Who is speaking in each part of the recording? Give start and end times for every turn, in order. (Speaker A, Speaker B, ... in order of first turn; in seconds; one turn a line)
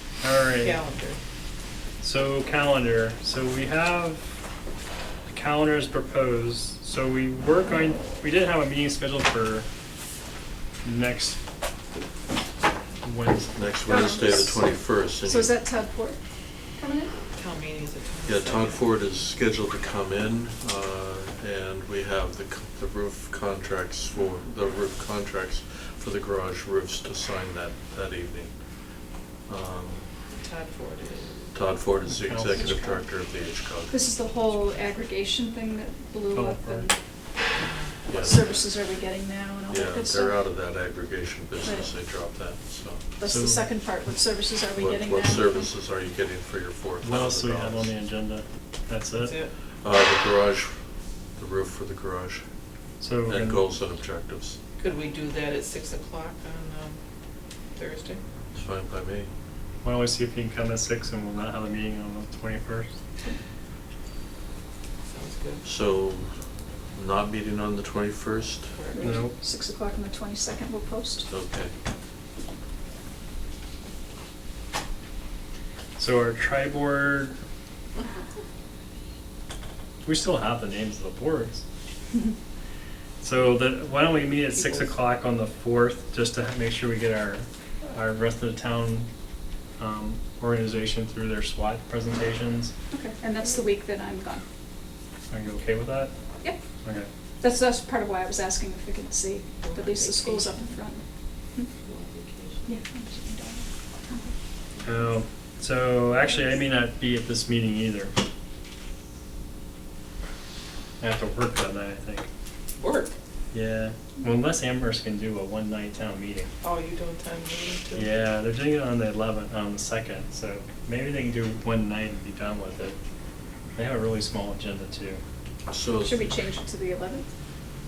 Speaker A: 0.2-0.8
Speaker B: 0.6-1.2
Speaker A: 2.0-4.2
Speaker A: 5.3-9.7
Speaker A: 10.8-11.4
Speaker A: 13.0-13.7
Speaker C: 13.6-15.5
Speaker D: 13.9-16.2
Speaker D: 16.8-17.2
Speaker B: 17.3-18.8
Speaker C: 18.3-28.6
Speaker C: 29.4-30.1
Speaker B: 30.3-31.6
Speaker C: 31.5-34.0
Speaker A: 32.0-32.8
Speaker D: 32.5-33.0
Speaker D: 33.9-37.0
Speaker A: 36.3-36.9
Speaker B: 37.6-38.1
Speaker C: 38.1-38.6
Speaker D: 38.1-40.4
Speaker C: 39.7-43.1
Speaker D: 41.6-41.9
Speaker D: 43.2-45.7
Speaker A: 43.3-43.7
Speaker C: 44.8-47.9
Speaker A: 47.0-49.4
Speaker B: 49.2-49.5
Speaker C: 49.8-52.5
Speaker A: 53.0-53.6
Speaker C: 53.3-54.6
Speaker B: 54.8-57.0
Speaker B: 57.7-58.2
Speaker C: 58.5-59.3
Speaker A: 59.8-62.9
Speaker B: 65.0-65.7
Speaker C: 65.6-68.8
Speaker B: 68.7-69.2
Speaker D: 68.9-71.3
Speaker A: 69.0-69.3
Speaker C: 71.3-71.7
Speaker A: 76.0-77.3
Speaker A: 80.0-81.6
Speaker A: 83.2-89.1
Speaker A: 89.8-92.7
Speaker D: 92.9-94.4
Speaker A: 95.3-96.1
Speaker A: 96.8-97.1
Speaker D: 97.4-101.7
Speaker B: 99.6-100.8
Speaker B: 101.8-102.8
Speaker D: 102.7-104.3
Speaker A: 104.8-108.1
Speaker A: 111.0-112.3
Speaker B: 112.8-113.2
Speaker A: 113.5-116.5
Speaker B: 116.6-118.1
Speaker A: 118.0-123.0
Speaker A: 123.7-125.2
Speaker C: 125.7-126.4
Speaker D: 126.0-127.3